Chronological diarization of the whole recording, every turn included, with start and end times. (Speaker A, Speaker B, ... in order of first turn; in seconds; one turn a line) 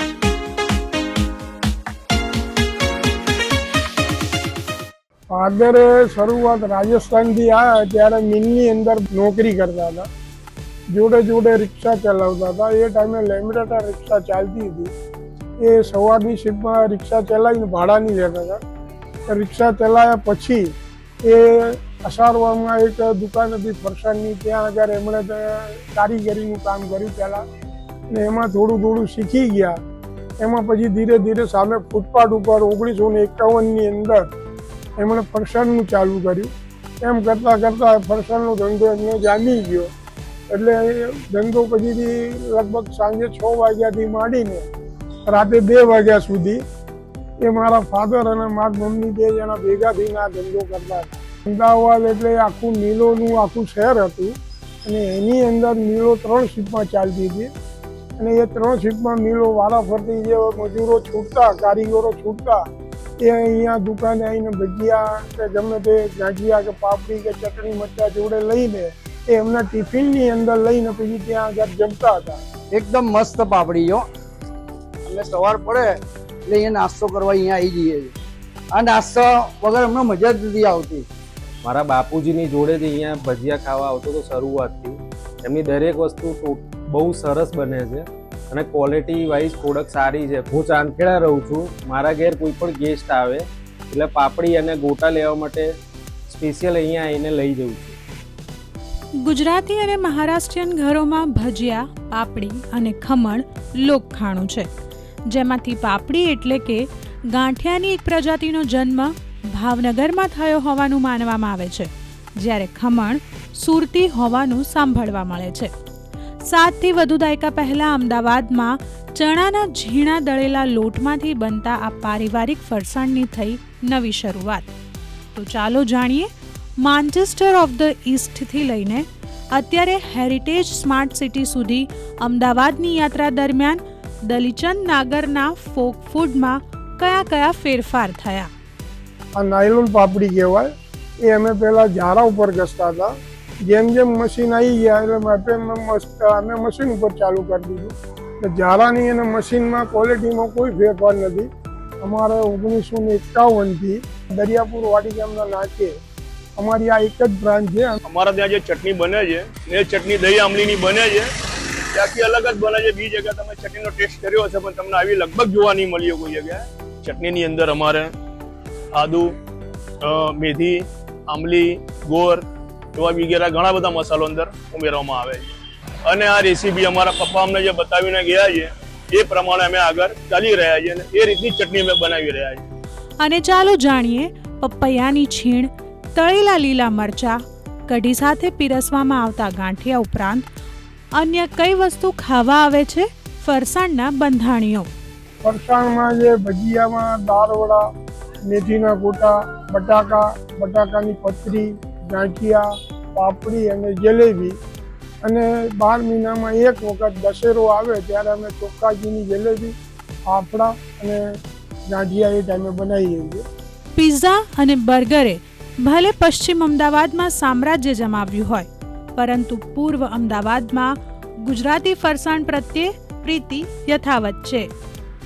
Speaker A: 5.3-10.1
Speaker A: 10.9-14.9
Speaker A: 15.6-18.6
Speaker A: 19.3-20.7
Speaker A: 21.2-27.4
Speaker A: 28.1-29.8
Speaker A: 30.4-34.2
Speaker A: 35.0-36.5
Speaker A: 37.0-39.9
Speaker A: 40.5-44.7
Speaker A: 45.3-46.6
Speaker A: 47.4-54.3
Speaker A: 54.9-57.5
Speaker A: 58.2-62.6
Speaker A: 63.2-72.4
Speaker B: 72.7-74.1
Speaker B: 75.0-78.1
Speaker B: 78.7-81.0
Speaker C: 81.6-95.7
Speaker C: 96.3-98.0
Speaker D: 99.2-104.7
Speaker D: 105.3-115.7
Speaker D: 116.4-124.7
Speaker D: 125.3-138.5
Speaker A: 139.3-140.7
Speaker A: 141.2-143.1
Speaker A: 143.7-151.5
Speaker A: 152.0-155.9
Speaker A: 156.6-158.0
Speaker E: 158.1-161.3
Speaker E: 161.9-168.1
Speaker E: 168.9-169.3
Speaker E: 170.0-175.5
Speaker E: 176.1-182.6
Speaker D: 183.2-190.4
Speaker D: 191.1-194.9
Speaker A: 195.4-197.8
Speaker A: 198.5-204.5
Speaker A: 205.2-209.7
Speaker A: 210.3-211.2
Speaker A: 211.9-213.4
Speaker D: 213.9-224.7